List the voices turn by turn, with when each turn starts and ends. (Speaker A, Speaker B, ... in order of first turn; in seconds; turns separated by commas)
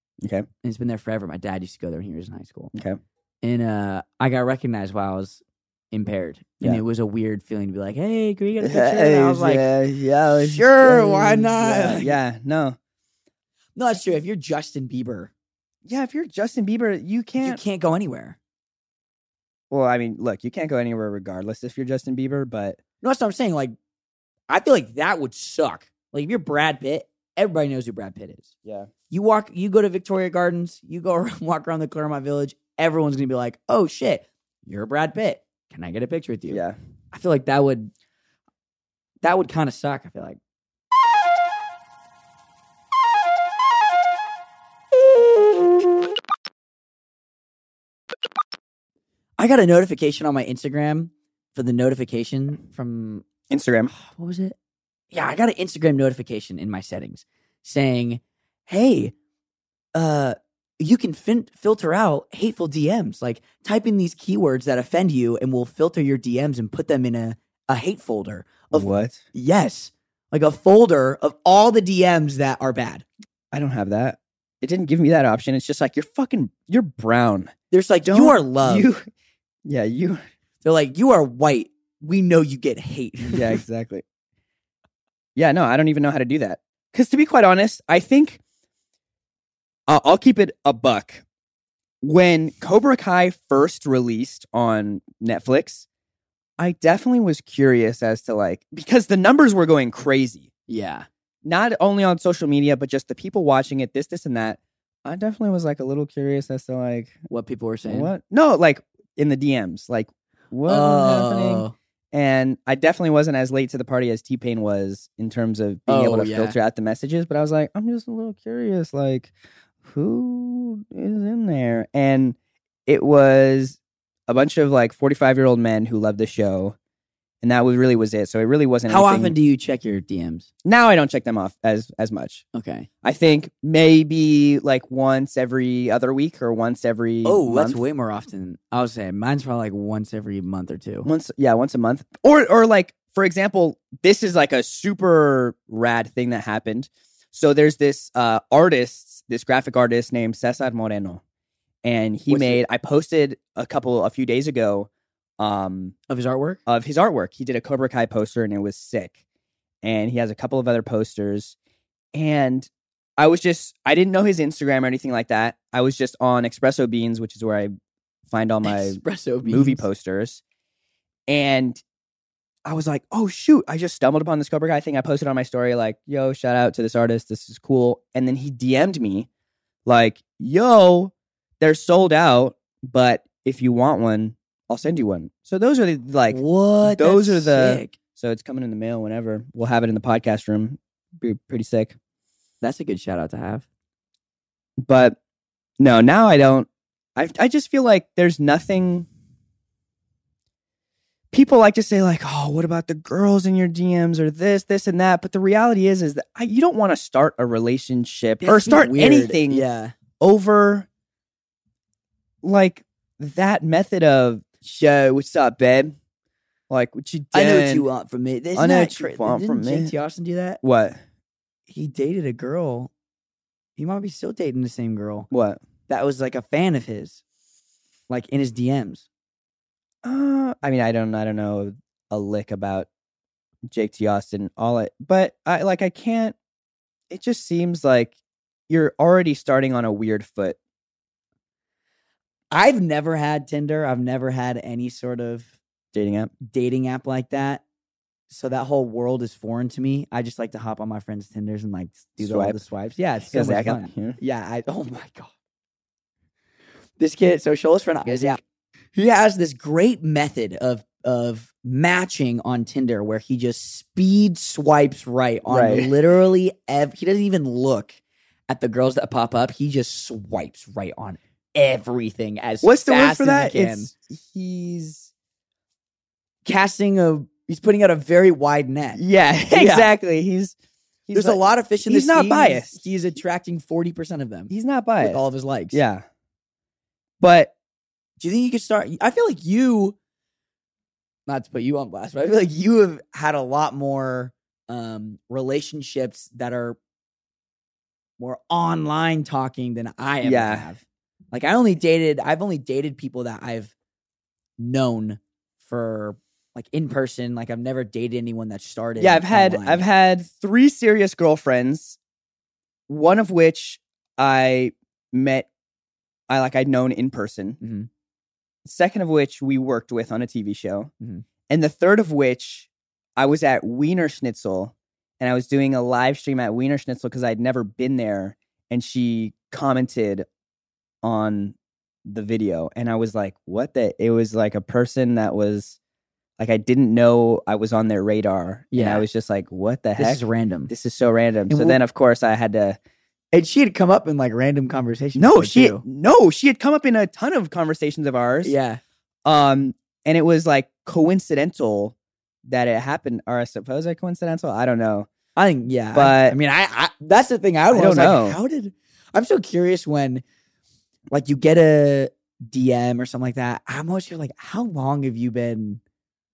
Speaker A: 0.2-0.5, Speaker B: 0.6-2.7, Speaker A: 2.7-3.0, Speaker B: 3.4-9.7, Speaker A: 8.6-12.8, Speaker B: 10.3-12.1, Speaker B: 13.8-15.3, Speaker A: 15.8-17.6, Speaker B: 17.4-18.4, Speaker A: 19.7-22.8, Speaker B: 23.0-23.7, Speaker B: 24.5-28.5, Speaker A: 28.6-28.9, Speaker B: 29.1-37.9, Speaker A: 36.5-36.8, Speaker B: 39.2-40.4, Speaker B: 49.4-53.2, Speaker A: 53.5-53.9, Speaker B: 53.9-54.5, Speaker B: 55.1-59.1, Speaker B: 59.9-73.0, Speaker A: 68.7-69.2, Speaker A: 73.5-77.5, Speaker B: 77.7-78.9, Speaker A: 78.0-79.1, Speaker A: 79.6-80.2, Speaker B: 80.6-83.6, Speaker A: 83.3-84.0, Speaker A: 85.3-88.4, Speaker A: 89.9-91.2, Speaker A: 92.0-95.8, Speaker A: 96.6-100.5, Speaker B: 100.7-101.1, Speaker A: 101.4-107.2, Speaker B: 107.3-108.1, Speaker A: 107.9-119.3, Speaker B: 110.7-111.7, Speaker B: 115.9-116.5, Speaker A: 119.8-126.7, Speaker A: 127.4-129.3, Speaker B: 128.9-130.5, Speaker A: 130.6-132.4, Speaker B: 132.5-132.9, Speaker A: 133.0-137.8, Speaker B: 137.2-141.1, Speaker A: 141.0-151.2, Speaker A: 151.8-155.9, Speaker B: 152.3-152.6, Speaker B: 156.1-156.6, Speaker A: 156.7-159.1, Speaker A: 159.8-161.6, Speaker A: 162.1-167.7, Speaker A: 168.3-170.4, Speaker B: 168.6-169.9, Speaker A: 171.3-171.8, Speaker A: 172.7-179.3, Speaker A: 179.8-191.9, Speaker B: 186.3-188.0, Speaker B: 192.6-193.6, Speaker A: 194.8-195.2, Speaker A: 195.8-199.1, Speaker A: 201.3-209.6, Speaker B: 208.4-209.9, Speaker A: 210.2-210.9, Speaker A: 212.4-215.9, Speaker A: 216.7-217.8, Speaker B: 217.3-220.6, Speaker A: 218.5-219.9, Speaker A: 220.6-221.0, Speaker B: 221.7-222.9, Speaker B: 223.8-225.3, Speaker A: 225.3-225.6, Speaker B: 225.9-227.2, Speaker B: 228.1-229.1, Speaker A: 230.0-232.9, Speaker A: 233.7-236.3, Speaker A: 237.1-238.1, Speaker A: 238.7-240.6, Speaker B: 242.5-245.5, Speaker A: 245.9-246.3, Speaker B: 246.4-247.6, Speaker B: 248.3-255.3, Speaker A: 252.2-252.6, Speaker A: 253.3-254.2, Speaker B: 257.0-258.4, Speaker A: 258.1-258.4, Speaker B: 258.9-273.9, Speaker A: 265.5-265.9, Speaker A: 272.6-275.1, Speaker B: 276.4-279.9, Speaker A: 278.9-280.6, Speaker A: 281.1-282.8, Speaker B: 281.1-285.8, Speaker A: 284.5-285.2, Speaker A: 285.7-286.0, Speaker A: 287.2-287.5, Speaker B: 288.2-289.9, Speaker B: 291.3-296.8, Speaker B: 298.2-303.7, Speaker A: 300.2-300.7, Speaker B: 304.6-309.9, Speaker A: 309.0-312.0, Speaker A: 312.9-315.5, Speaker A: 316.3-317.6, Speaker B: 317.6-317.9, Speaker A: 318.6-320.9, Speaker A: 321.5-330.2, Speaker A: 331.0-331.5, Speaker A: 332.1-335.8, Speaker A: 336.4-342.8, Speaker B: 338.7-339.1, Speaker B: 340.0-340.7, Speaker B: 341.5-341.8, Speaker B: 343.3-345.8, Speaker A: 345.1-348.5, Speaker B: 348.4-348.8, Speaker A: 349.2-351.9, Speaker A: 352.4-355.1, Speaker B: 355.4-360.2, Speaker A: 355.9-356.4, Speaker A: 357.7-358.4, Speaker B: 361.1-365.8